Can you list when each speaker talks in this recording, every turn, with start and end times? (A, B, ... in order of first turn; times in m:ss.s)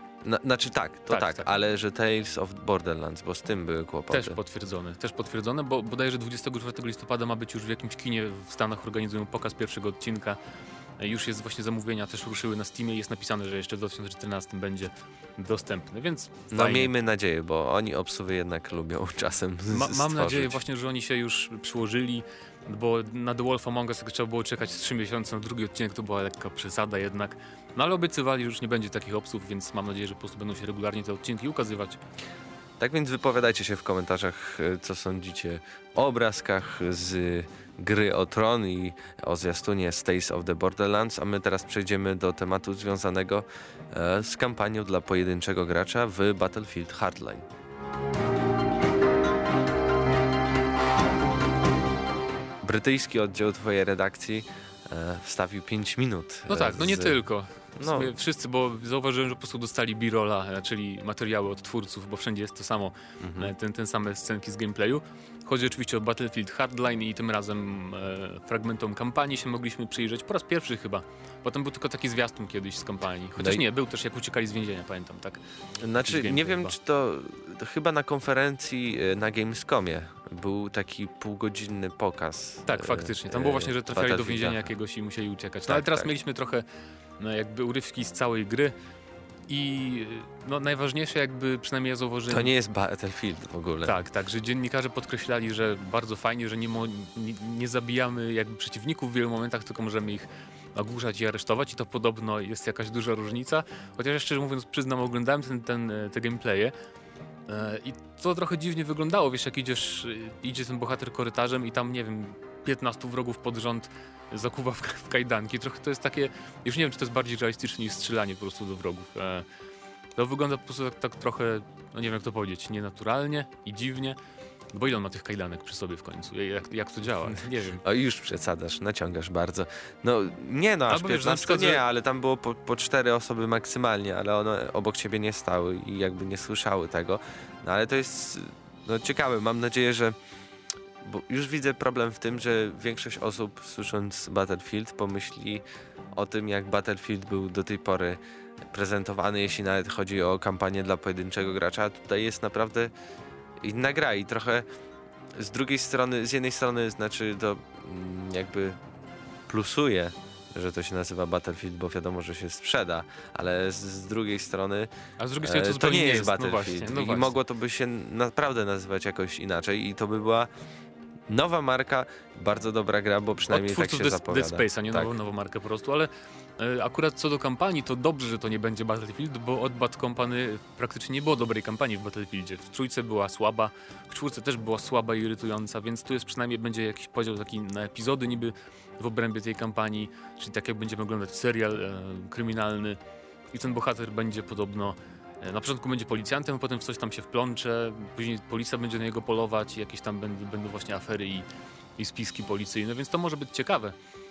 0:00.2-0:04.4 A
0:01.1-0:01.5 B
0:04.1-0:10.4 B
0:11.0-0:16.9 B
0:16.5-0:20.6 A
0:19.7-0:32.0 B
0:32.8-0:47.5 A
0:52.6-0:57.2 A
0:56.5-1:15.4 B
0:57.8-0:58.1 A
1:03.2-1:03.5 A
1:13.4-1:13.6 A
1:15.8-1:24.7 A
1:16.0-1:16.8 B
1:22.7-1:26.6 B
1:25.7-1:26.1 A
1:27.2-1:28.8 B
1:29.5-1:32.5 B
1:32.3-1:34.0 A
1:33.8-1:46.7 B
1:47.5-1:59.5 B
2:00.2-2:04.2 B
2:04.7-2:07.8 B
2:07.8-2:20.2 A
2:10.9-2:11.8 B
2:21.0-2:25.6 A
2:26.2-2:32.9 A
2:33.6-2:34.6 A
2:35.3-2:38.8 A
2:39.5-2:44.9 A
2:45.2-2:47.4 B
2:45.4-2:50.5 A
2:51.3-2:55.2 A
2:53.5-3:13.0 B
3:13.5-3:21.5 B
3:22.0-3:24.0 B